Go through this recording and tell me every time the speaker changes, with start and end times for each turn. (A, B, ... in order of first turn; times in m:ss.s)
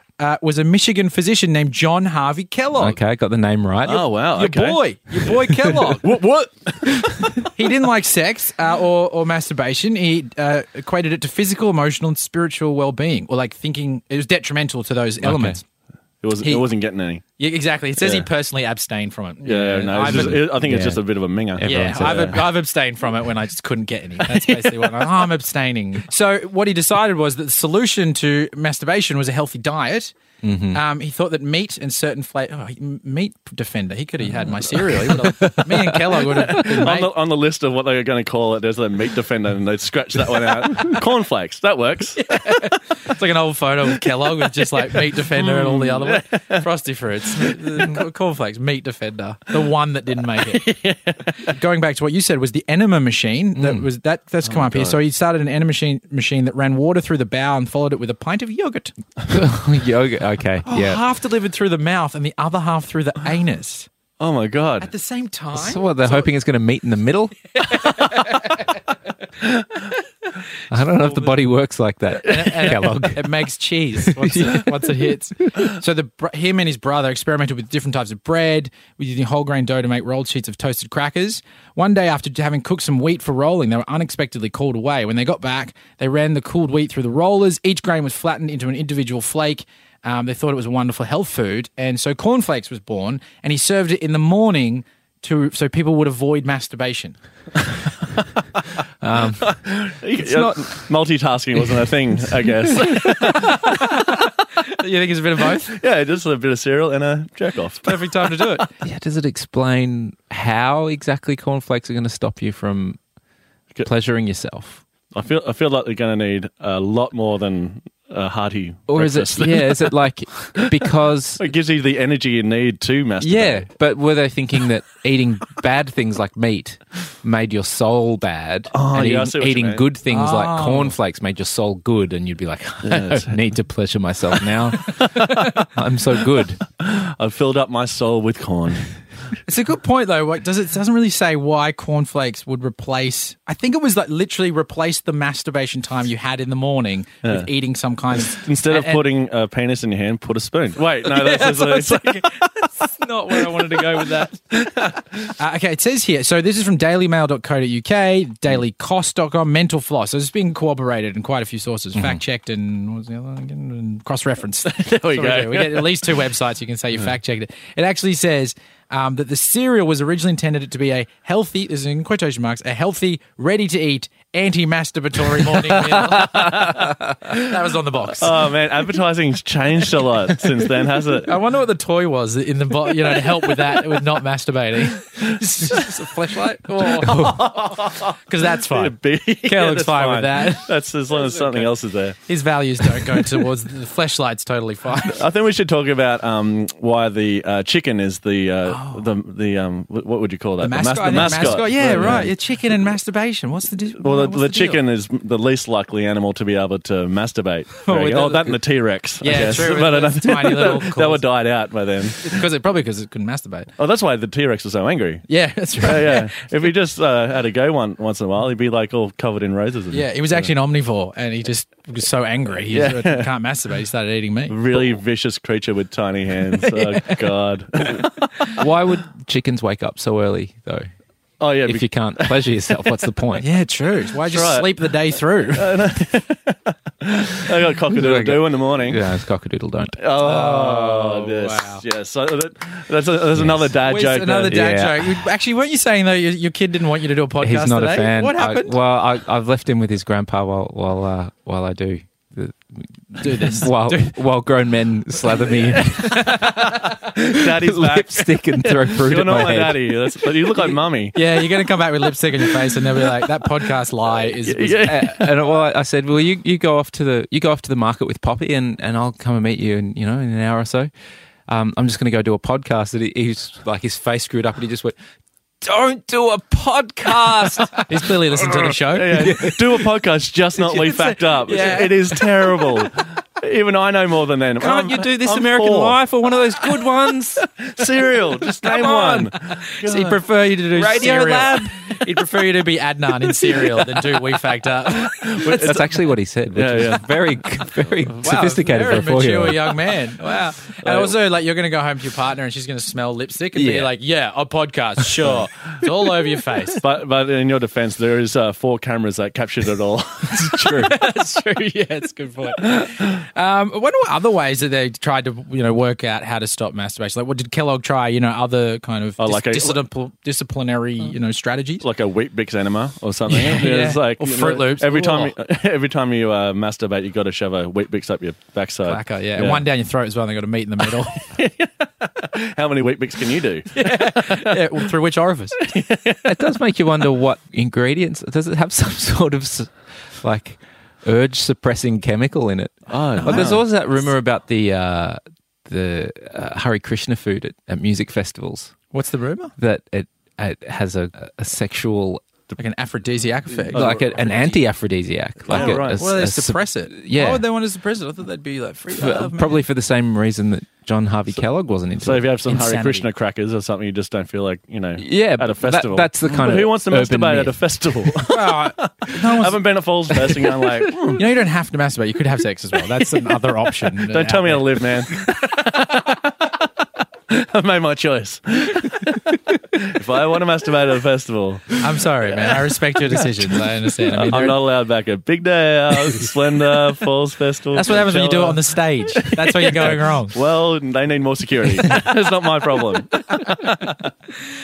0:00.2-0:03.0 A
0:02.8-0:04.1 B
0:03.8-0:07.5 C
0:04.3-0:06.0 A
0:07.5-0:15.6 A
0:15.2-0:15.6 B
0:16.2-0:17.2 C
0:16.4-0:16.7 A
0:17.4-0:20.7 A
0:18.0-0:18.3 C
0:19.4-0:22.4 C
0:20.0-0:21.0 B
0:21.6-0:22.4 B
0:21.6-0:30.2 A
0:30.4-0:30.8 B
0:30.7-0:37.1 A
0:35.0-0:36.5 B
0:36.5-0:42.4 C
0:42.2-0:50.8 A
0:44.6-0:46.6 C
0:47.4-0:47.9 C
0:50.6-0:51.1 C
0:51.3-0:58.9 A
0:53.6-0:53.9 B
0:54.4-0:55.0 C
0:59.3-1:01.0 B
1:00.7-1:03.9 A
1:04.2-1:04.9 C
1:04.8-1:06.3 A
1:05.5-1:08.0 B
1:07.7-1:08.8 A
1:10.7-1:13.5 B
1:11.0-1:11.4 A
1:12.2-1:37.2 A
1:14.0-1:15.1 B
1:39.0-1:40.9 B
1:39.4-1:43.9 C
1:43.1-1:45.8 A
1:45.7-1:48.1 C
1:47.8-1:48.7 A
1:48.8-1:53.0 B
1:53.8-1:54.8 B
1:55.1-2:00.0 C
1:58.9-2:01.4 B
2:00.6-2:03.7 C
2:03.2-2:16.6 B
2:08.7-2:09.9 C
2:10.1-2:11.0 A
2:12.8-2:13.4 C
2:14.9-2:15.7 C
2:16.8-2:18.9 C
2:19.5-2:29.0 A
2:27.2-2:27.5 C
2:28.2-2:32.3 C
2:31.0-2:34.4 A
2:33.5-2:35.3 C
2:35.4-2:58.5 A
2:44.6-2:46.2 C
2:55.9-2:57.4 C
2:58.2-3:01.4 C
3:01.2-3:11.7 A
3:06.8-3:12.2 C
3:12.2-3:15.2 A
3:12.8-3:13.4 C
3:15.0-3:22.3 C
3:18.7-3:19.0 A
3:20.6-3:24.8 A
3:21.1-3:21.4 B
3:24.0-3:32.4 C
3:27.8-3:28.6 A
3:29.2-3:31.3 A
3:32.2-3:33.7 A
3:33.8-3:35.3 C
3:35.3-3:36.4 A
3:35.8-3:40.5 C
3:39.9-3:45.0 A
3:42.7-3:43.3 C
3:44.5-3:48.1 C
3:46.6-3:47.2 A
3:48.0-3:48.5 A
3:48.5-3:50.9 B
3:51.4-3:52.6 C
3:51.6-3:53.5 B
3:53.4-3:55.7 A
3:54.2-3:54.9 C
3:55.5-3:59.1 C
3:57.9-4:00.0 B
4:00.0-4:04.8 C
4:00.2-4:01.8 A
4:03.4-4:03.7 B
4:03.8-4:08.8 A
4:04.5-4:05.1 B
4:07.4-4:20.0 B
4:13.2-4:14.2 A
4:15.5-4:17.0 A
4:17.1-4:23.4 C
4:20.6-4:25.1 A
4:24.3-4:25.4 C
4:24.8-4:30.9 B
4:31.5-4:35.0 B
4:35.6-4:39.9 B
4:37.9-4:39.4 A
4:38.8-4:46.0 C
4:40.6-4:42.9 B
4:41.6-4:41.8 A
4:44.6-4:47.5 B
4:47.6-4:50.2 C
4:48.6-4:49.3 B
4:49.8-4:55.7 A
4:50.7-4:52.4 B
4:55.0-4:57.1 C
4:55.5-4:59.8 B
4:58.2-5:06.8 A
5:00.8-5:01.2 C
5:03.6-5:03.9 B
5:06.7-5:11.0 C
5:10.6-5:21.8 A
5:10.6-5:10.9 B
5:19.2-5:19.8 C
5:21.8-5:29.7 C
5:23.3-5:25.3 A
5:28.8-5:31.3 A
5:31.2-5:34.7 C
5:33.7-5:35.7 A
5:35.6-5:36.3 C
5:36.2-5:48.7 B
5:42.9-5:43.6 C
5:43.2-5:43.6 A
5:48.9-5:49.5 A
5:49.6-5:52.2 B
5:52.6-5:54.6 A
5:53.7-5:54.5 C
5:53.7-5:57.4 B
5:55.5-5:56.1 C
5:55.5-5:59.6 A
5:58.9-6:02.2 B
6:02.0-6:11.2 C
6:02.5-6:03.1 A
6:05.0-6:08.2 B
6:08.3-6:09.7 A
6:11.0-6:14.9 A
6:13.8-6:16.7 C
6:17.3-6:23.2 C
6:21.8-6:24.6 A
6:24.1-6:34.1 C
6:27.7-6:30.4 A